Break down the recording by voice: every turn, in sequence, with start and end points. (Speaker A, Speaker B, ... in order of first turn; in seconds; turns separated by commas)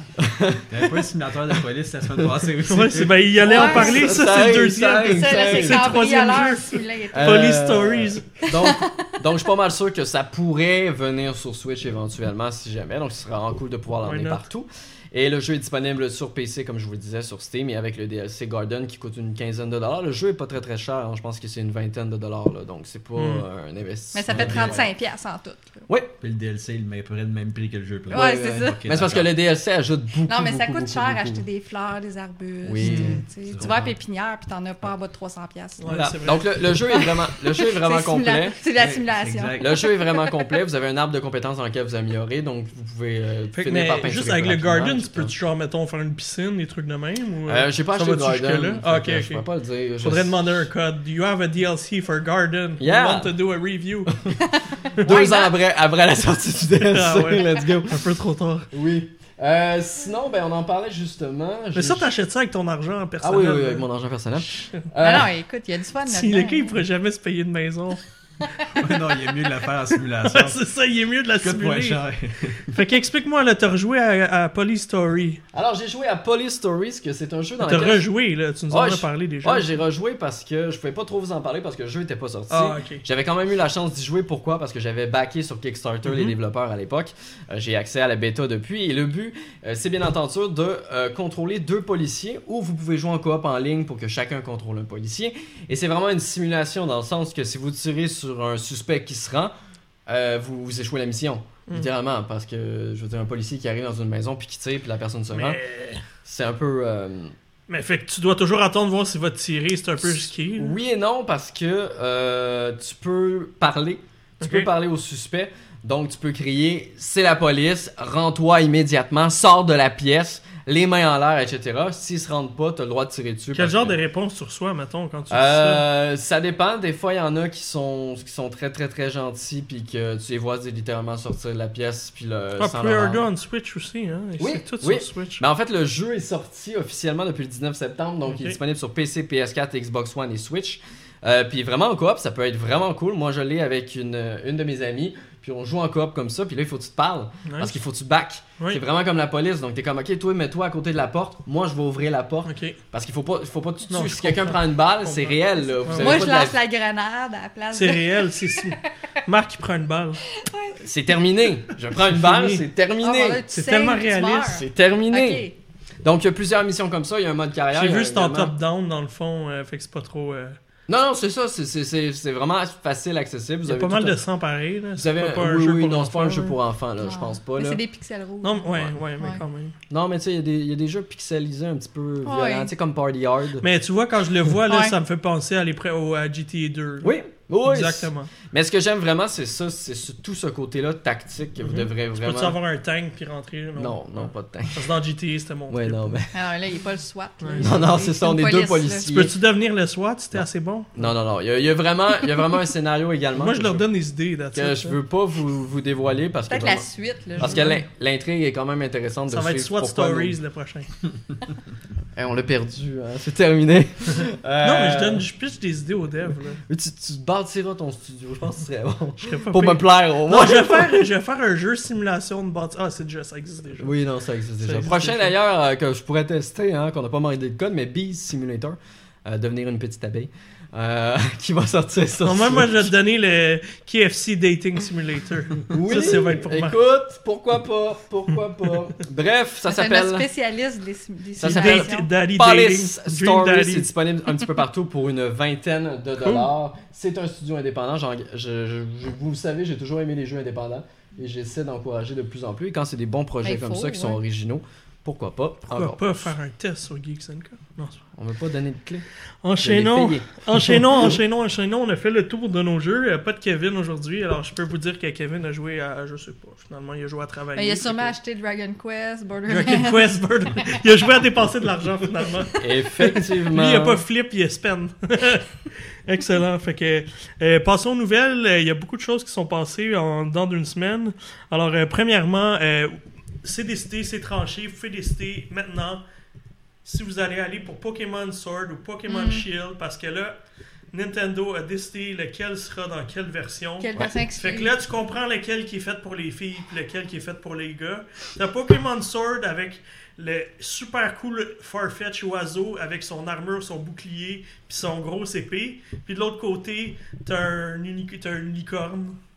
Speaker A: 0.2-1.6, Speaker B: 0.7-3.4, Speaker C: 2.7-8.4, Speaker A: 3.4-6.0, Speaker D: 3.4-4.1, Speaker D: 5.0-7.6, Speaker A: 7.1-24.9, Speaker D: 8.4-9.1, Speaker C: 14.0-14.4, Speaker C: 23.1-23.4, Speaker D: 24.1-25.9, Speaker B: 24.3-24.9, Speaker A: 25.9-26.1, Speaker B: 26.2-29.3, Speaker D: 28.1-28.8, Speaker A: 28.1-31.4, Speaker D: 30.2-36.1, Speaker A: 32.6-33.9, Speaker C: 32.8-33.1, Speaker B: 33.5-33.8, Speaker C: 35.8-36.5, Speaker A: 35.9-38.6, Speaker D: 36.9-40.4, Speaker B: 38.8-39.8, Speaker A: 39.6-45.3, Speaker C: 43.6-49.4, Speaker A: 47.5-50.3, Speaker C: 50.0-54.1, Speaker A: 52.8-53.3, Speaker A: 54.1-54.4, Speaker D: 54.4-55.5, Speaker C: 55.0-55.2, Speaker A: 55.0-58.0, Speaker C: 56.8-58.7, Speaker A: 58.7-62.1, Speaker C: 61.7-63.9, Speaker A: 63.2-65.3, Speaker C: 64.5-64.8, Speaker D: 65.0-66.8, Speaker C: 66.0-68.0, Speaker B: 68.7-70.6, Speaker C: 70.2-72.0, Speaker B: 71.4-72.7, Speaker C: 72.7-75.4, Speaker A: 75.5-78.0, Speaker C: 77.6-79.7, Speaker A: 78.7-99.5, Speaker C: 82.5-83.0, Speaker C: 86.0-86.3, Speaker A: 100.1-105.6, Speaker C: 105.3-106.0, Speaker A: 106.2-107.3, Speaker C: 107.7-110.8, Speaker A: 110.0-124.0, Speaker C: 114.4-114.7, Speaker C: 123.5-125.8, Speaker A: 125.3-133.2, Speaker C: 132.6-135.4, Speaker A: 134.4-156.6, Speaker C: 138.2-138.6, Speaker C: 147.4-147.7, Speaker C: 152.4-152.8, Speaker C: 153.9-156.2, Speaker D: 155.9-158.9, Speaker C: 157.7-160.2, Speaker D: 160.3-160.8, Speaker A: 160.8-163.4, Speaker C: 161.9-162.6, Speaker D: 163.0-165.5, Speaker C: 163.5-164.6, Speaker A: 164.4-165.5, Speaker A: 166.0-168.5, Speaker C: 167.7-170.6, Speaker A: 170.9-174.2, Speaker C: 173.6-176.6, Speaker A: 175.0-177.8, Speaker D: 177.0-179.4, Speaker C: 178.4-179.7, Speaker A: 179.9-183.6, Speaker D: 182.2-182.7, Speaker C: 183.6-187.1, Speaker D: 184.7-184.9, Speaker A: 187.0-192.6, Speaker C: 187.6-188.3, Speaker C: 191.6-196.0, Speaker A: 193.8-194.9, Speaker A: 195.7-196.3, Speaker D: 196.3-199.1, Speaker C: 197.4-197.7, Speaker A: 197.6-199.3, Speaker C: 199.1-201.1, Speaker A: 200.3-203.8, Speaker C: 203.3-205.0, Speaker A: 204.5-206.9, Speaker D: 206.5-207.7, Speaker A: 207.4-210.4, Speaker C: 207.4-207.8, Speaker C: 209.3-210.9, Speaker A: 212.1-215.2, Speaker C: 214.6-216.6, Speaker A: 216.7-221.1, Speaker C: 219.2-223.9, Speaker A: 223.8-232.9, Speaker C: 224.6-225.3, Speaker C: 232.2-236.8, Speaker A: 235.7-240.3, Speaker D: 239.7-242.1, Speaker A: 241.4-256.3, Speaker C: 241.4-243.9, Speaker C: 246.2-246.5, Speaker D: 253.4-254.2, Speaker C: 255.7-258.0, Speaker A: 258.1-259.0, Speaker C: 259.4-268.1, Speaker A: 259.6-261.2, Speaker D: 267.6-270.0, Speaker C: 269.5-275.5, Speaker A: 272.6-274.0, Speaker C: 276.1-286.0, Speaker C: 286.8-290.3, Speaker D: 289.1-289.4, Speaker C: 290.9-309.2, Speaker D: 293.8-294.7